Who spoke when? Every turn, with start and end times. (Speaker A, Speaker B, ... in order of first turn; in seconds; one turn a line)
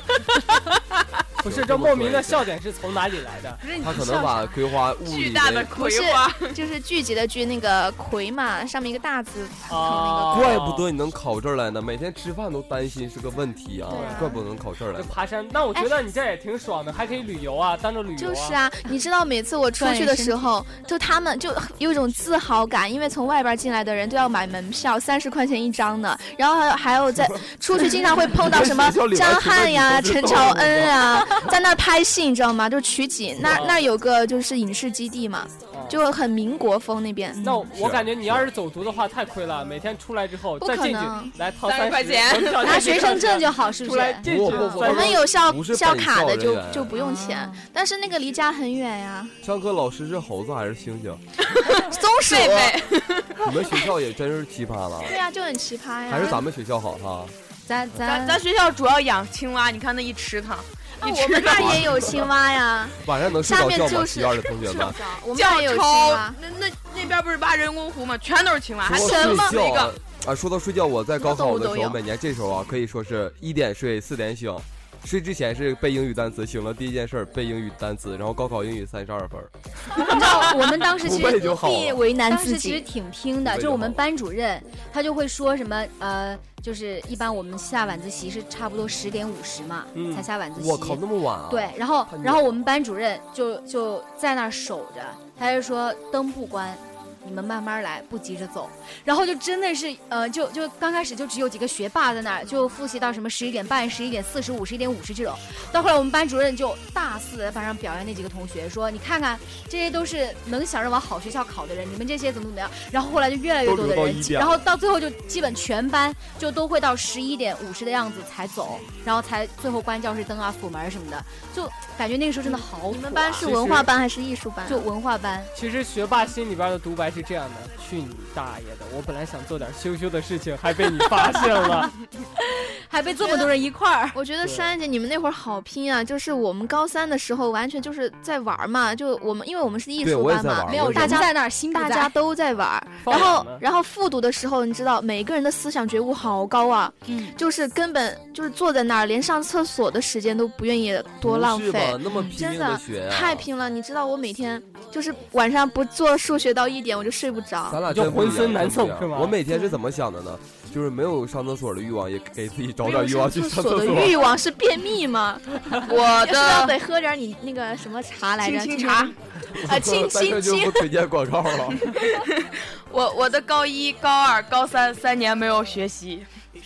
Speaker A: 1.4-3.6
Speaker B: 1.4-2.5
Speaker C: 3.6-4.6
Speaker B: 3.8-5.8
Speaker D: 5.0-6.5
Speaker E: 5.8-10.6
Speaker A: 9.7-10.9
Speaker B: 10.3-15.2
Speaker E: 13.9-14.4
Speaker A: 13.9-14.2
Speaker A: 14.9-18.6
Speaker E: 18.2-37.4
Speaker C: 19.8-20.4
Speaker B: 27.1-31.6
Speaker B: 33.4-33.6
Speaker A: 33.4-33.8
Speaker A: 35.7-36.0
Speaker C: 37.3-37.7
Speaker A: 37.4-45.3
Speaker B: 37.7-38.5
Speaker E: 40.6-41.3
Speaker D: 41.6-43.0
Speaker C: 42.6-44.2
Speaker B: 44.2-46.9
Speaker E: 44.5-49.3
Speaker C: 46.9-47.6
Speaker B: 49.4-51.2
Speaker D: 51.5-53.5
Speaker E: 51.9-52.8
Speaker B: 53.4-55.2
Speaker E: 55.0-56.4
Speaker B: 56.1-57.3
Speaker C: 57.6-58.4
Speaker D: 58.0-62.1
Speaker E: 61.0-66.4
Speaker B: 61.5-62.3
Speaker B: 63.0-65.0
Speaker D: 64.6-69.9
Speaker B: 68.8-79.5
Speaker E: 68.9-69.6
Speaker E: 71.2-72.0
Speaker C: 79.9-123.8
Speaker B: 81.0-82.0
Speaker E: 81.6-82.8
Speaker B: 83.4-84.0
Speaker A: 89.9-90.2
Speaker B: 90.5-92.5
Speaker B: 113.6-114.6
Speaker E: 122.5-124.9
Speaker A: 123.4-123.9
Speaker C: 124.6-125.5
Speaker A: 125.5-131.9
Speaker C: 132.4-134.2
Speaker E: 133.2-133.5
Speaker E: 134.1-157.8
Speaker A: 134.4-134.7
Speaker B: 140.0-141.3
Speaker C: 140.7-142.1
Speaker A: 143.0-143.6
Speaker C: 147.1-147.3
Speaker B: 151.2-153.5
Speaker B: 157.7-164.3
Speaker A: 157.9-159.4
Speaker E: 159.5-159.8
Speaker E: 162.8-169.1
Speaker D: 165.8-166.8
Speaker D: 168.4-170.8
Speaker B: 169.5-171.9
Speaker D: 171.8-176.3